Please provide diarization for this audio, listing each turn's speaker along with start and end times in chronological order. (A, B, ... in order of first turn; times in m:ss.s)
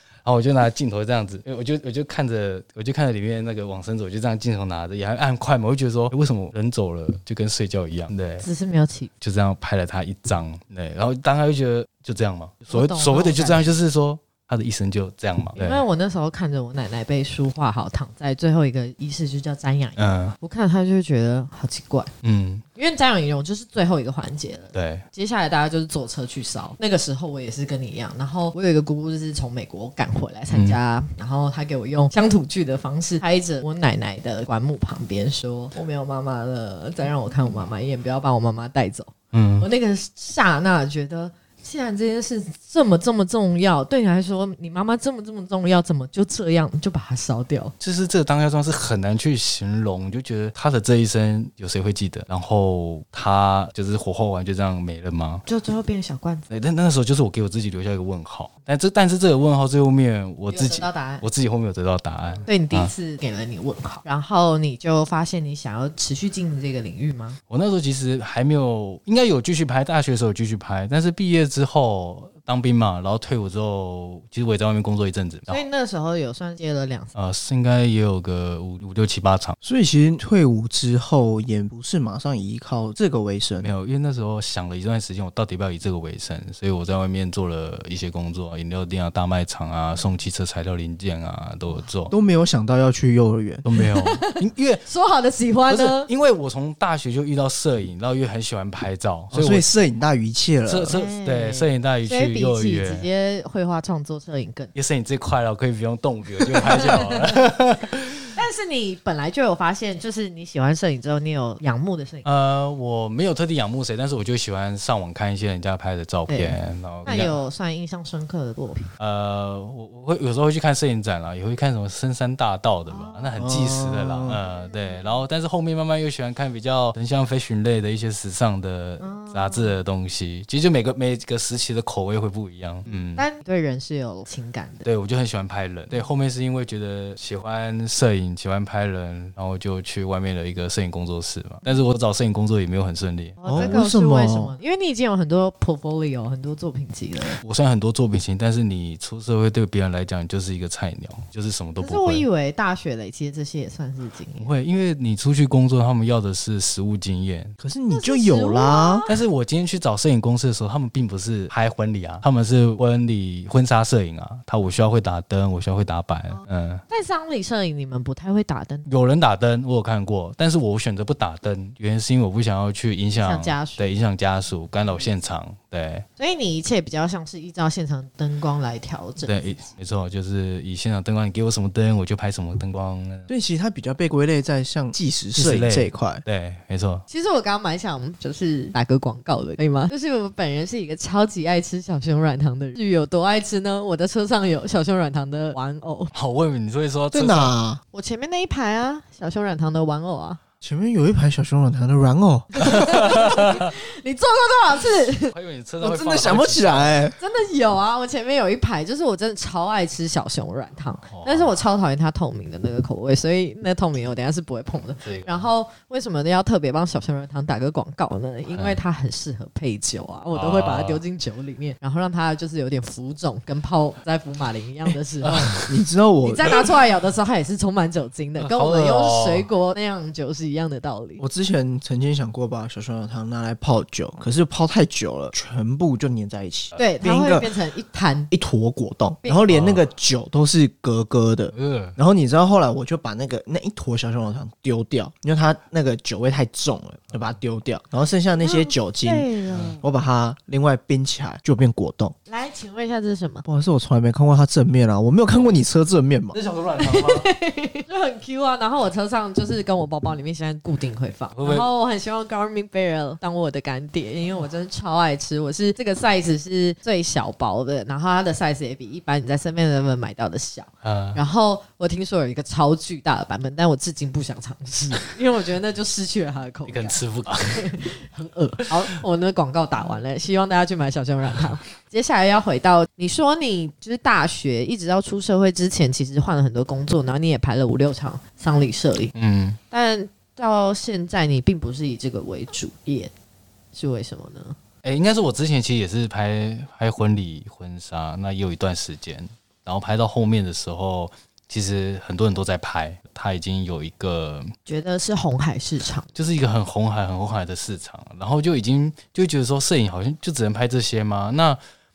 0:00.2-0:08.5 A
0:08.4-0:09.1 B
0:09.2-0:15.8 A
0:12.7-0:13.7 B
0:15.6-0:22.1 B
0:20.0-0:20.4 A
0:22.2-0:22.6 A
0:22.8-0:47.7 B
0:24.7-0:25.0 A
0:30.5-0:30.8 A
0:39.3-0:39.7 A
0:47.8-0:55.4 A
0:55.4-0:56.5 B
0:56.5-1:02.9 A
1:00.5-1:01.2 B
1:02.5-1:07.4 B
1:07.5-1:15.6 A
1:15.5-1:17.1 B
1:17.2-1:19.6 A
1:19.6-1:23.7 C
1:23.6-1:32.1 A
1:32.1-1:33.6 C
1:33.6-1:34.8 A
1:33.8-1:36.1 B
1:35.7-1:39.7 A
1:39.3-1:41.0 C
1:40.7-1:43.1 A
1:40.9-1:44.7 B
1:44.8-1:48.3 A
1:46.6-1:47.5 B
1:48.3-1:52.2 B
1:52.2-1:57.4 A
1:56.3-1:58.9 B
1:59.0-2:13.3 A
2:02.9-2:03.4 B
2:03.4-2:04.4 C
2:04.4-2:05.2 B
2:09.0-2:09.8 B
2:12.9-2:14.9 B
2:14.8-2:23.8 A
2:23.4-2:27.4 B
2:23.5-2:24.6 C
2:27.4-2:32.2 A
2:31.8-2:34.5 B
2:34.4-2:37.6 A
2:37.6-2:39.1 C
2:37.9-2:39.2 B
2:39.1-2:46.8 A
2:46.3-2:48.9 B
2:48.9-2:56.0 A
2:53.2-2:53.9 B
2:56.2-2:59.6 B
2:59.2-3:03.3 A
3:03.3-3:06.2 C
3:05.4-3:07.0 A
3:07.1-3:16.1 B
3:16.1-3:17.5 A
3:17.1-3:17.8 C
3:17.9-3:20.4 B
3:20.6-3:22.5 C
3:22.5-3:25.3 B
3:22.8-3:23.6 A
3:25.3-3:27.0 A
3:25.8-3:27.2 C
3:27.2-3:45.7 B
3:31.1-3:31.6 A
3:35.0-3:35.5 A
3:38.5-3:38.8 A
3:40.3-3:41.0 A
3:45.2-3:45.6 A
3:45.6-3:46.6 C
3:46.2-3:51.2 B
3:48.4-3:49.5 A
3:51.2-3:57.5 C
3:56.8-3:58.3 B
3:58.3-4:09.3 C
3:59.5-3:59.8 A
4:01.5-4:02.0 A
4:08.4-4:09.8 B
4:09.8-4:12.2 C
4:12.3-4:13.4 B
4:13.4-4:16.4 C
4:15.3-4:15.6 A
4:16.3-4:17.3 A
4:16.8-4:49.1 B
4:21.4-4:21.7 A
4:30.8-4:31.2 A
4:36.7-4:37.7 A
4:49.2-4:49.6 A
4:49.7-4:53.1 B
4:53.7-4:54.6 B
4:54.8-5:04.5 A
5:04.7-5:06.2 B
5:06.2-5:11.6 A